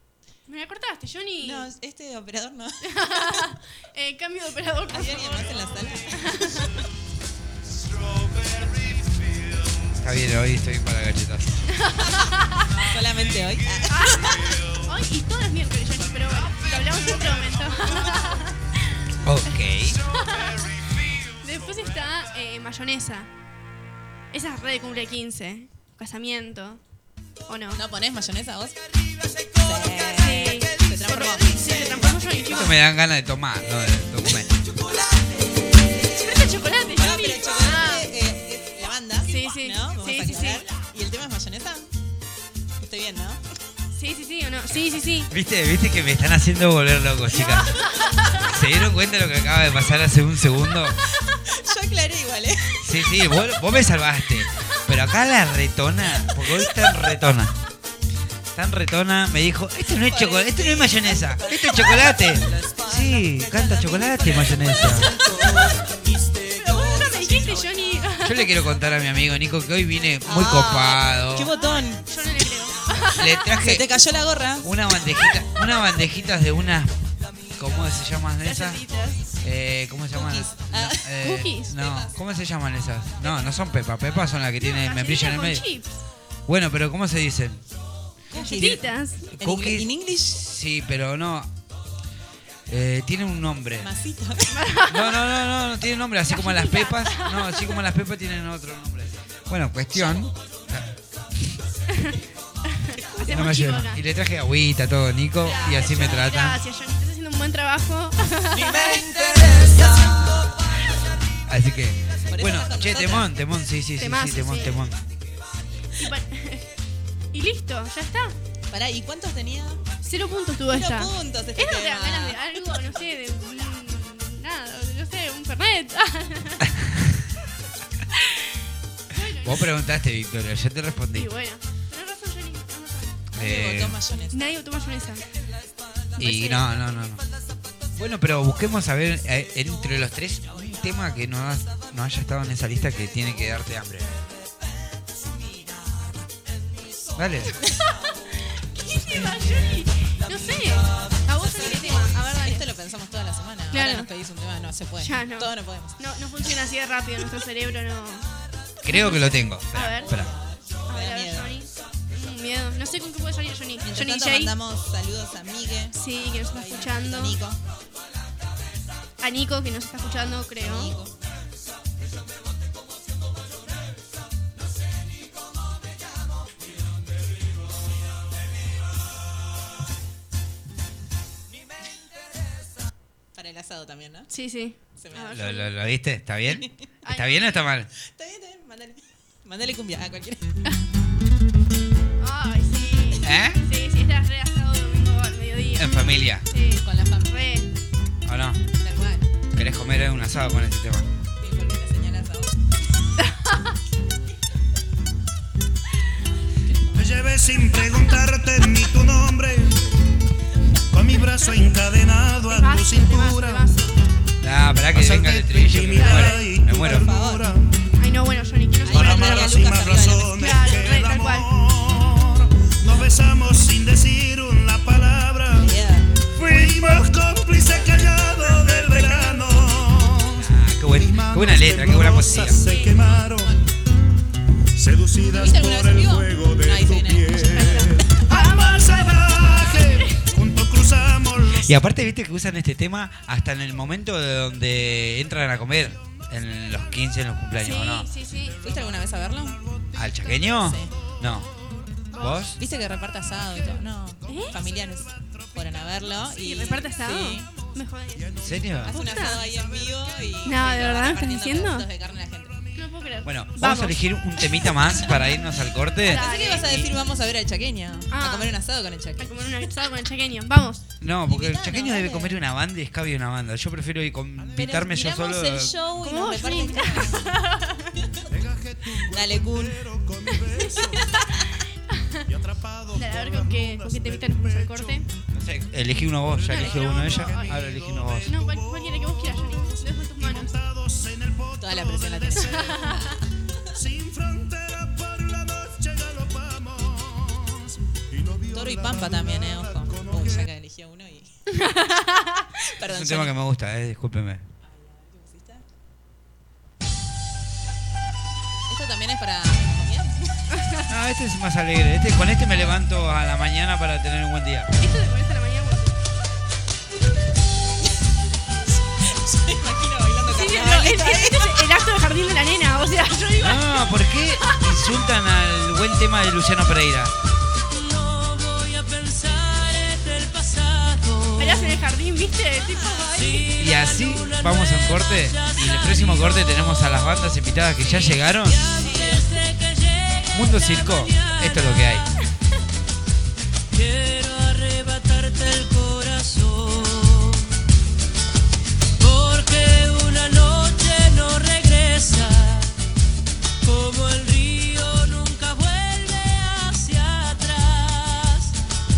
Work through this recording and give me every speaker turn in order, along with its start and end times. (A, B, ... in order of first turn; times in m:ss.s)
0:00.4-0:01.7 A
0:01.4-0:03.4 B
0:02.8-0:06.7 A
0:04.9-0:06.6 B
0:10.0-0:11.6 C
0:11.7-0:12.8 A
0:12.9-0:14.4 B
0:13.9-0:18.8 A
0:19.2-0:20.0 C
0:20.1-0:23.3 A
0:24.3-0:26.8 A
0:27.5-0:27.8 A
0:27.7-0:28.8 B
0:29.6-0:32.1 B
0:30.2-0:32.8 A
0:32.4-0:34.5 C
0:36.1-0:38.1 A
0:37.0-0:41.9 B
0:39.3-0:40.6 A
0:42.8-0:43.4 B
0:43.9-0:45.3 A
0:45.3-0:47.7 C
0:47.5-0:48.3 A
0:48.3-0:51.0 C
0:51.3-0:52.9 B
0:52.8-0:57.6 C
0:56.4-0:56.7 B
0:58.5-1:05.2 C
1:00.0-1:02.8 B
1:04.4-1:05.9 B
1:06.4-1:07.8 B
1:06.7-1:08.5 A
1:08.2-1:11.5 C
1:10.2-1:12.0 B
1:11.6-1:13.4 A
1:13.1-1:13.9 C
1:13.4-1:14.7 B
1:14.6-1:17.0 C
1:17.6-1:18.8 C
1:18.4-1:19.2 A
1:19.4-1:25.7 C
1:20.1-1:21.1 B
1:21.2-1:21.8 A
1:21.8-1:22.2 B
1:24.6-1:26.0 A
1:26.5-1:27.6 C
1:28.3-1:30.4 B
1:28.3-1:29.3 A
1:29.4-1:31.5 C
1:32.7-1:33.9 C
1:33.8-1:34.6 B
1:34.5-1:35.3 A
1:34.9-1:40.9 C
1:36.3-1:37.7 A
1:39.9-1:40.2 B
1:42.7-1:44.0 A
1:43.3-1:46.6 C
1:45.4-1:46.3 B
1:45.4-1:49.1 A
1:48.7-1:50.6 B
1:51.5-1:55.0 C
1:52.3-1:53.3 B
1:54.0-1:54.9 A
1:56.0-1:56.7 A
1:57.3-1:58.4 A
1:58.7-1:59.8 B
2:00.0-2:06.7 A
2:00.7-2:02.4 B
2:06.7-2:07.2 C
2:08.2-2:08.4 A
2:09.1-2:09.7 A
2:09.4-2:11.3 C
2:11.1-2:13.3 A
2:13.3-2:14.0 C
2:13.4-2:14.4 B
2:14.3-2:15.2 A
2:16.2-2:17.2 C
2:16.3-2:16.6 B
2:17.9-2:24.1 C
2:27.2-2:27.6 C
2:28.8-2:32.6 A
2:28.9-2:29.7 C
2:31.3-2:36.0 B
2:33.7-2:34.1 A
2:35.0-2:38.3 A
2:38.8-2:40.1 A
2:38.8-2:40.3 C
2:40.0-2:41.5 B
2:40.9-2:44.5 A
2:43.8-2:47.6 B
2:45.9-2:47.4 A
2:49.2-2:51.0 A
2:50.6-2:51.1 B
3:03.3-3:04.3 B
3:04.3-3:05.7 A
3:05.0-3:05.4 B
3:05.3-3:07.9 C
3:06.5-3:06.8 B
3:07.0-3:07.6 A
3:08.0-3:10.5 B
3:12.2-3:17.7 A
3:13.2-3:13.6 C
3:15.8-3:16.4 C
3:16.8-3:17.3 B
3:18.2-3:18.6 C
3:18.8-3:19.2 B
3:19.5-3:21.1 C
3:21.4-3:22.6 B
3:23.2-3:23.6 A
3:26.7-3:27.3 B
3:26.9-3:29.8 D
3:30.9-3:33.7 D
3:32.5-3:34.0 A
3:34.4-3:37.1 C
3:34.9-3:37.8 D
3:35.9-3:36.4 A
3:36.6-3:37.5 B
3:38.0-3:39.8 A
3:38.8-3:40.6 B
3:38.9-3:53.6 D
3:40.3-3:41.5 A
3:45.5-3:46.1 B
3:48.2-3:49.6 A
3:50.3-3:52.6 C
3:52.5-3:53.2 A
3:52.8-3:53.7 B
3:54.7-4:01.7 D
3:55.3-3:58.1 B
3:57.5-4:00.2 A
4:01.6-4:08.1 C
4:07.6-4:08.6 A
4:08.6-4:09.6 B
4:09.9-4:11.5 C
4:10.5-4:10.9 B
4:12.1-4:12.6 C
4:12.1-4:12.4 A
4:12.6-4:17.5 B
4:14.3-4:14.6 A
4:16.4-4:19.4 A
4:18.4-4:18.9 C
4:18.9-4:22.6 B
4:20.4-4:21.9 A
4:22.7-4:25.3 A
4:23.2-4:26.9 C
4:26.0-4:26.8 A
4:26.0-4:29.4 B
4:28.1-4:28.6 A
4:29.2-4:30.8 A
4:31.0-4:35.8 C
4:31.3-4:32.4 B
4:34.4-4:37.3 B
4:36.0-4:37.9 A
4:38.3-4:41.2 D
4:39.1-4:39.8 B
4:41.9-4:42.2 A
4:42.3-4:45.0 D
4:42.9-4:45.1 A
4:45.3-4:48.3 C
4:46.3-4:53.1 D
4:46.5-4:50.5 A
4:51.6-4:53.2 B
4:52.5-4:53.2 A
4:53.7-5:00.5 D
4:58.5-5:01.5 B
5:01.5-5:02.5 A
5:02.6-5:03.3 B
5:02.8-5:04.4 C
5:04.6-5:05.6 B
5:08.7-5:10.4 B
5:10.6-5:10.8 A
5:10.9-5:14.7 C
5:14.8-5:16.0 A
5:19.0-5:21.6 B
5:20.3-5:24.7 A
5:23.4-5:27.1 C
5:27.7-5:31.8 E
5:31.4-5:33.5 A
5:33.2-5:42.2 E
5:33.6-5:38.6 C
5:38.8-5:39.2 B
5:40.3-5:42.0 C
5:43.7-5:47.4 E
5:49.0-5:52.7 E
5:53.6-5:58.6 E